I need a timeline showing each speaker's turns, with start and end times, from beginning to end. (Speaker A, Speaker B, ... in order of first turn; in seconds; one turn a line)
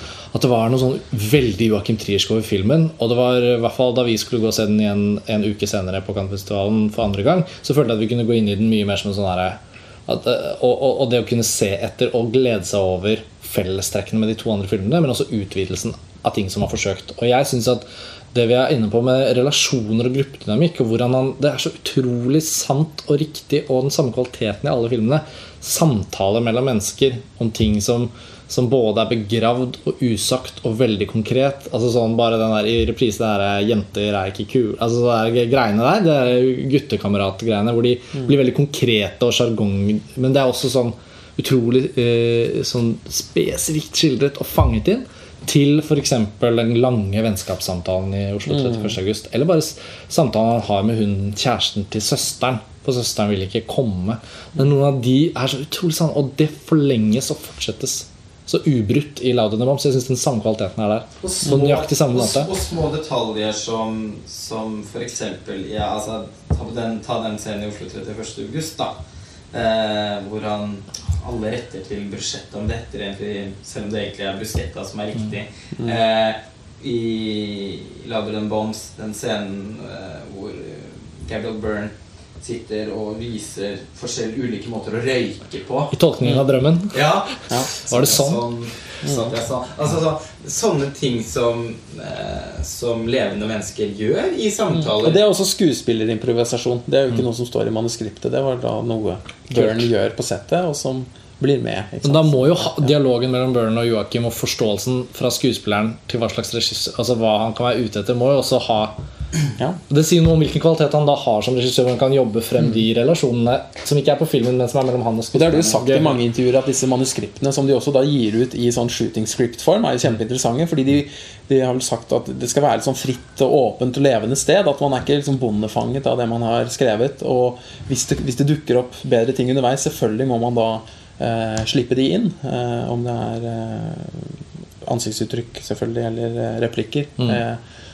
Speaker A: 0.3-62.5
Speaker B: 48.5-48.9
Speaker C: 61.2-69.0
Speaker C: 69.5-85.9
Speaker A: 85.9-88.4
Speaker C: 86.9-95.2
Speaker B: 89.0-89.3
Speaker B: 94.7-102.9
Speaker A: 102.0-109.0
Speaker A: 109.9-116.2
Speaker B: 115.3-137.6